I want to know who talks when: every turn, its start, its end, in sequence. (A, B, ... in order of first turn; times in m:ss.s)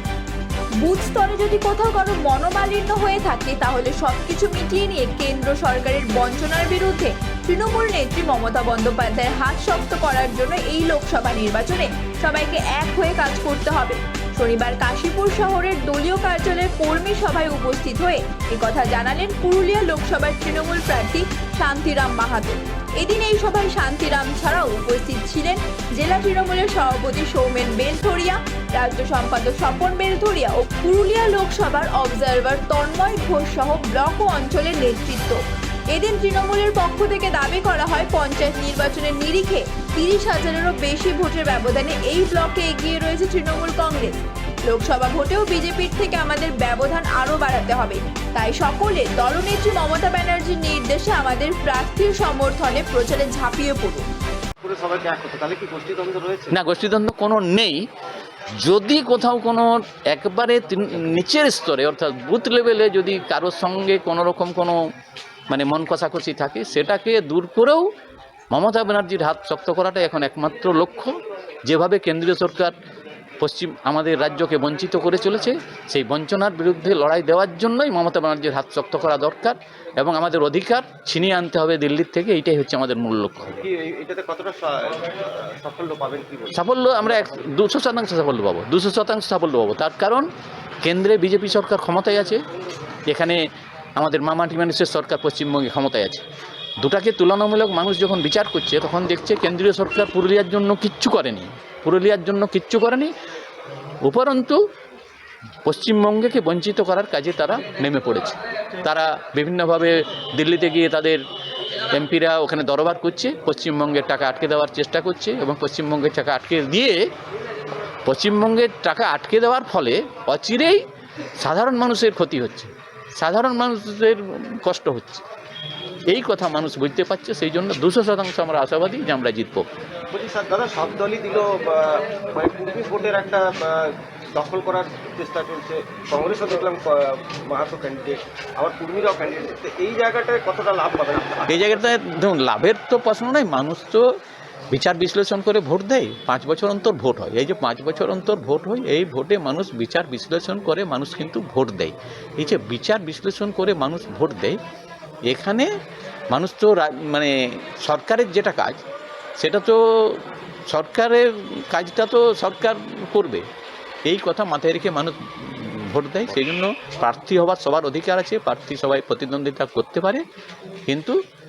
0:00.8-0:35.4 A
0:35.9-0:54.0 A
0:54.6-0:56.5 B
0:56.5-0:57.8 C
0:58.6-1:04.8 C
1:05.5-1:07.8 C
1:08.5-1:11.1 C
1:11.6-1:12.8 C
1:13.4-1:23.6 C
1:23.8-1:26.5 B
1:26.5-1:30.3 C
1:30.8-1:32.4 C
1:33.1-1:33.4 C
1:34.0-1:36.2 C
1:36.8-1:43.1 C
1:44.0-1:44.6 C
1:45.6-1:51.2 C
1:51.9-1:57.0 C
1:58.0-2:00.8 C
2:01.4-2:05.2 C
2:06.1-2:09.7 C
2:10.2-2:13.8 B
2:14.4-2:21.3 B
2:21.5-2:24.0 C
2:24.7-2:34.6 C
2:35.3-2:35.7 C
2:36.3-2:38.8 C
2:39.4-2:43.4 C
2:44.1-2:50.2 C
2:50.9-2:51.2 C